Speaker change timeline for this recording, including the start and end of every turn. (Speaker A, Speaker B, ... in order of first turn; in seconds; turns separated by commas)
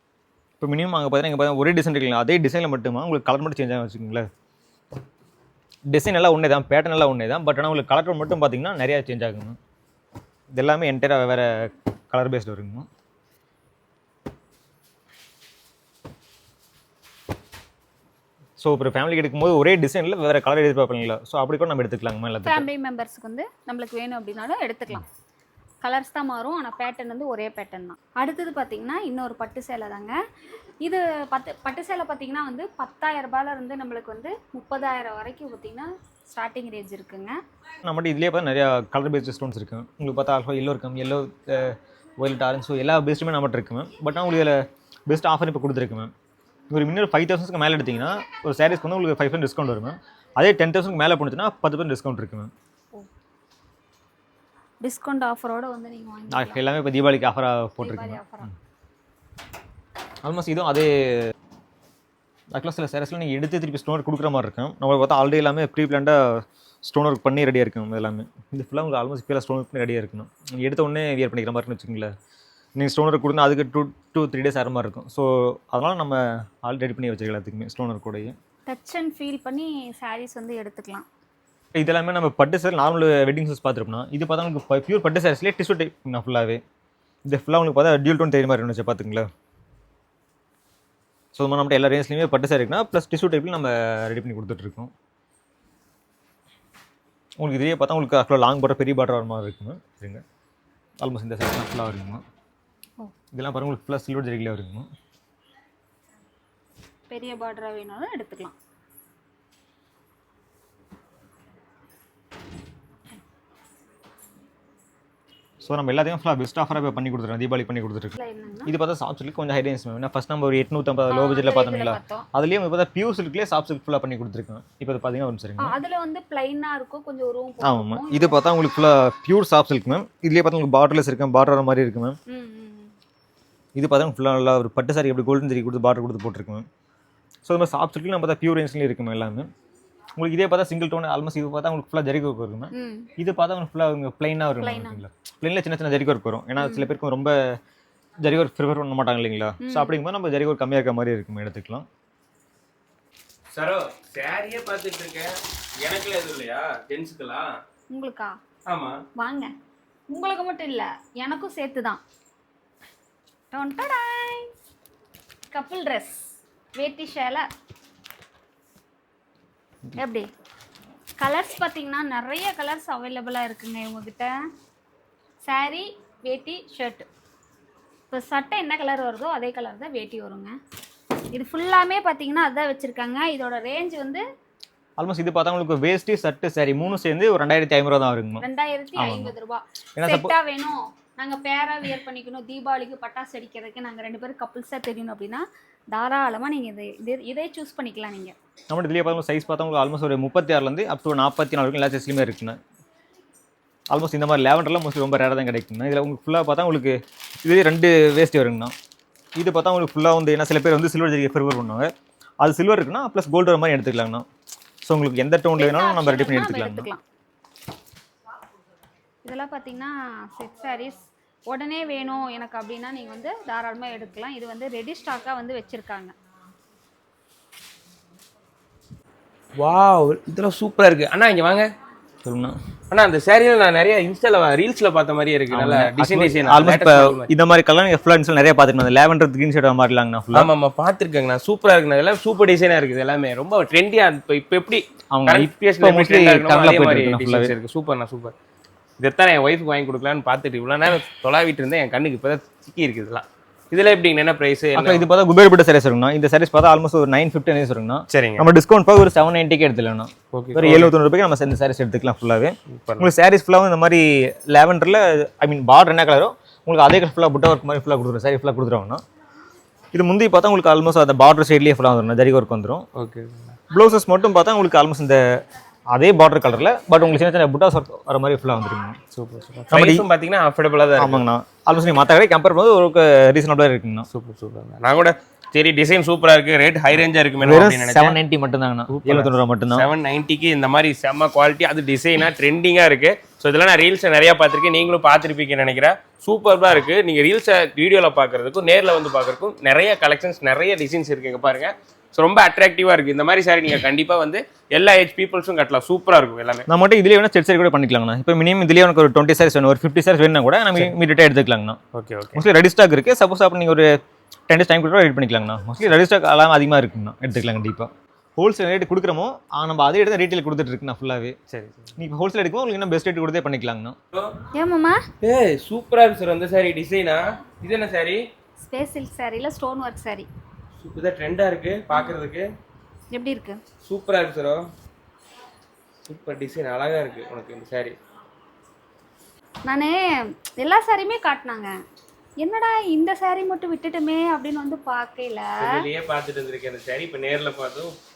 Speaker A: 0.6-4.3, Speaker A: 5.9-9.6, Speaker A: 10.5-12.9, Speaker A: 18.6-22.6, Speaker B: 22.4-25.1, Speaker B: 25.8-30.2, Speaker B: 30.8-37.4, Speaker A: 37.8-46.1, Speaker A: 46.7-52.5, Speaker B: 54.8-56.6, Speaker A: 56.3-58.5, Speaker B: 57.8-58.5, Speaker A: 60.2-61.3, Speaker A: 62.5-72.1, Speaker A: 72.8-78.3, Speaker B: 78.7-81.1, Speaker A: 81.7-86.6, Speaker A: 87.3-89.3, Speaker A: 91.3-94.9, Speaker A: 97.4-100.2, Speaker A: 101.0-102.2, Speaker A: 103.3-104.9, Speaker B: 107.1-108.5, Speaker A: 115.6-125.8, Speaker B: 118.1-118.7, Speaker B: 121.1-122.3, Speaker B: 125.6-128.4, Speaker A: 127.6-132.2, Speaker B: 132.3-132.9, Speaker A: 133.8-136.7, Speaker A: 137.4-139.5, Speaker A: 140.2-147.6, Speaker B: 142.7-143.1, Speaker B: 144.6-145.0, Speaker B: 146.6-146.9, Speaker A: 148.2-151.8, Speaker B: 149.6-149.9, Speaker C: 153.5-157.6, Speaker B: 157.9-158.4, Speaker C: 158.7-159.0, Speaker B: 159.2-159.5, Speaker B: 160.1-162.0, Speaker B: 163.5-164.5, Speaker B: 165.5-167.5, Speaker B: 169.9-170.3, Speaker B: 171.2-174.5, Speaker B: 175.4-177.1, Speaker B: 178.1-180.5, Speaker B: 181.3-184.2, Speaker A: 185.0-189.3, Speaker B: 188.4-198.3, Speaker A: 189.9-190.3, Speaker A: 198.7-202.6, Speaker A: 203.9-208.7, Speaker A: 209.4-214.2, Speaker A: 214.8-216.9, Speaker B: 215.6-217.0, Speaker B: 219.2-226.1, Speaker C: 229.6-231.7, Speaker A: 232.2-232.6, Speaker C: 232.9-237.3, Speaker A: 235.5-240.5, Speaker C: 240.3-248.3, Speaker A: 245.1-247.5, Speaker C: 249.0-255.1, Speaker A: 254.7-269.0, Speaker C: 258.1-258.5, Speaker C: 260.3-260.9, Speaker C: 262.8-263.1, Speaker A: 269.9-272.8, Speaker C: 272.9-273.6, Speaker A: 273.7-279.0, Speaker C: 279.1-281.2, Speaker A: 279.7-280.1, Speaker A: 281.0-284.1, Speaker C: 284.1-288.2, Speaker A: 287.4-289.9, Speaker C: 288.9-306.7, Speaker A: 306.7-311.8, Speaker C: 311.9-312.4, Speaker A: 312.3-313.9, Speaker A: 314.5-321.4, Speaker C: 321.5-321.9, Speaker A: 322.0-324.0, Speaker B: 324.5-325.0, Speaker C: 325.2-328.2, Speaker B: 328.6-330.3, Speaker C: 330.8-332.4, Speaker B: 333.1-333.6, Speaker C: 333.8-334.6, Speaker C: 336.1-337.9, Speaker B: 339.6-341.7, Speaker B: 342.4-345.8, Speaker C: 345.6-347.9